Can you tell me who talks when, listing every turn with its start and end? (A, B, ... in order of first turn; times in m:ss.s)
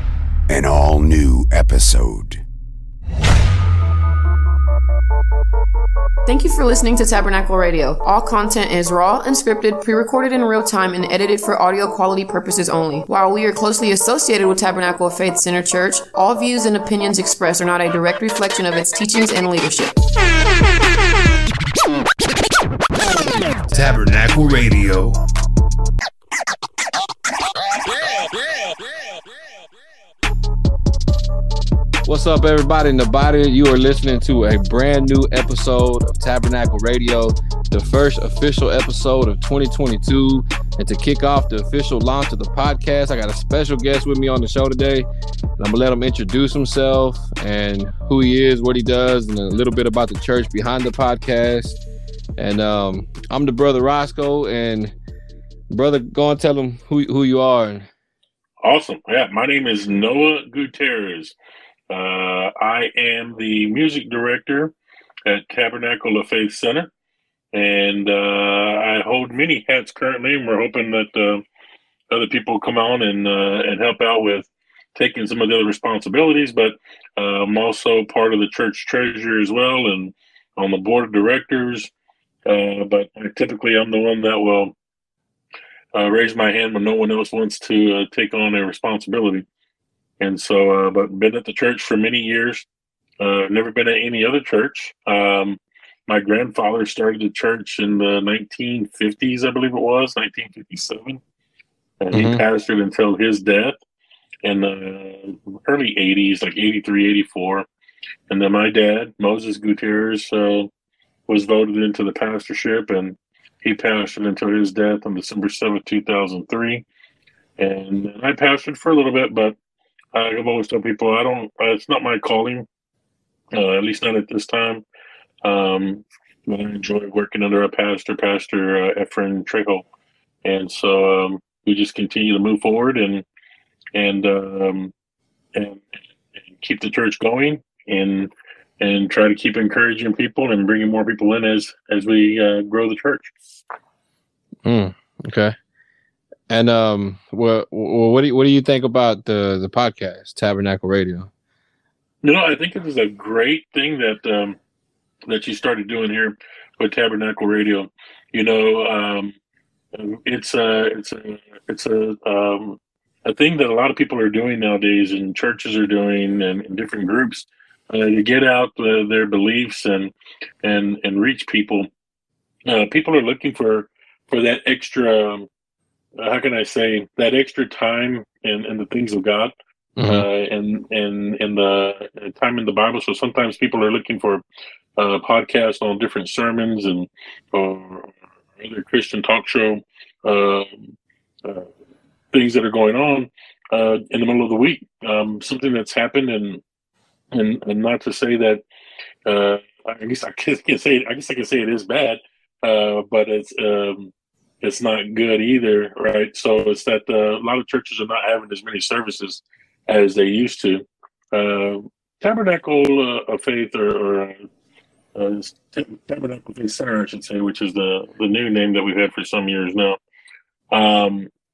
0:00.5-0:02.4 A
0:06.3-0:20.0 B
0:23.6-0:25.2 C
0:32.0-0:45.0 C
0:45.6-0:51.8 C
0:52.4-0:54.9 C
0:55.7-0:57.9 C
0:58.6-1:01.3 D
1:01.9-1:04.7 D
1:05.3-1:06.9 D
1:07.5-1:11.4 D
1:12.1-1:21.9 D
1:22.5-1:24.7 D
1:25.9-1:29.4 D
1:30.2-1:32.7 D
1:33.2-1:41.2 D
1:42.0-1:43.8 D
1:42.1-1:42.4 C
1:44.4-1:47.7 D
1:48.3-1:50.7 D
1:51.3-1:56.8 D
1:57.6-1:59.6 D
2:00.1-2:02.7 D
2:03.6-2:04.8 D
2:05.4-2:09.8 D
2:10.4-2:13.2 D
2:13.9-2:14.9 D
2:15.5-2:15.8 D
2:16.6-2:23.3 D
2:24.6-2:25.5 C
2:26.5-2:31.3 C
2:32.2-2:34.6 D
2:35.3-2:39.3 D
2:39.9-2:51.9 D
2:52.7-2:55.5 D
2:56.2-3:04.4 D
3:00.0-3:00.2 C
3:05.0-3:10.9 D
3:12.3-3:16.6 D
3:17.3-3:18.6 D
3:19.2-3:34.4 D
3:35.1-3:40.0 D
3:40.7-3:41.3 D